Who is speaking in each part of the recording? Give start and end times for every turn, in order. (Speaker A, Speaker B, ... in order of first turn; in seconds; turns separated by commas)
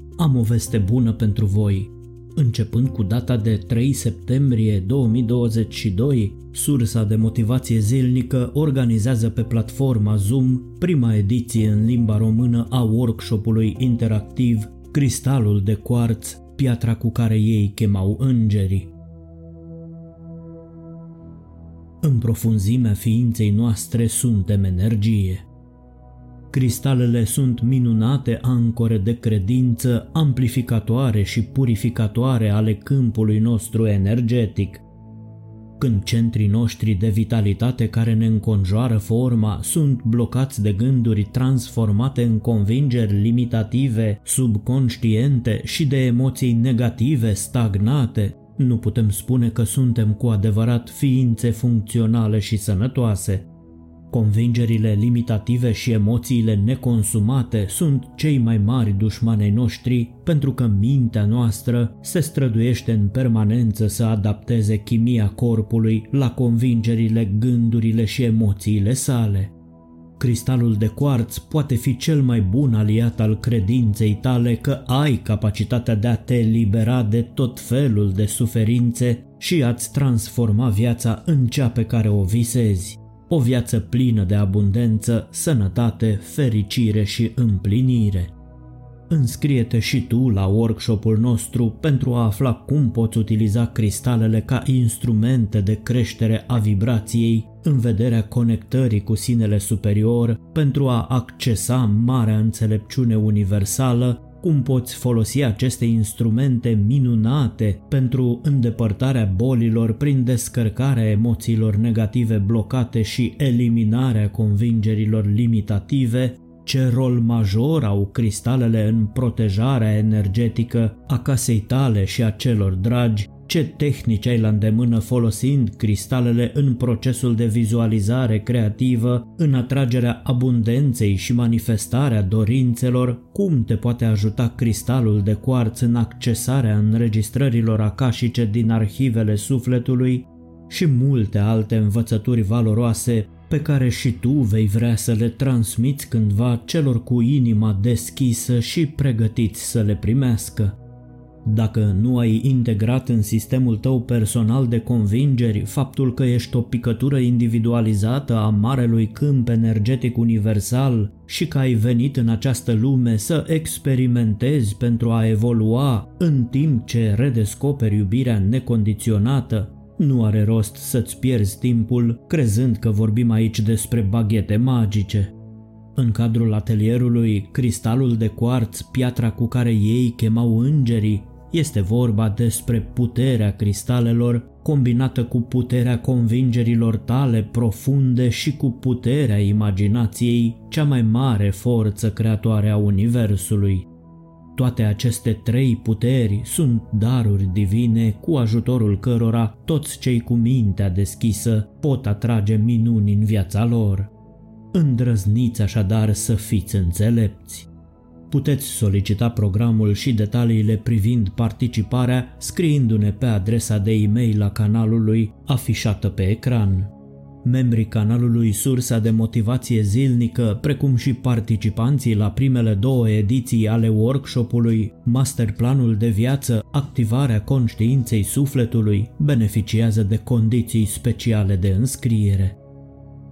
Speaker A: 0.2-18.9, Speaker A: 22.0-25.5, Speaker A: 26.5-34.8, Speaker A: 35.8-53.5, Speaker A: 54.1-69.5, Speaker A: 70.2-88.3, Speaker A: 89.1-150.8, Speaker A: 151.4-175.3, Speaker A: 175.9-193.9, Speaker A: 194.6-204.1, Speaker A: 204.7-207.7, Speaker A: 208.3-216.9, Speaker A: 217.4-232.6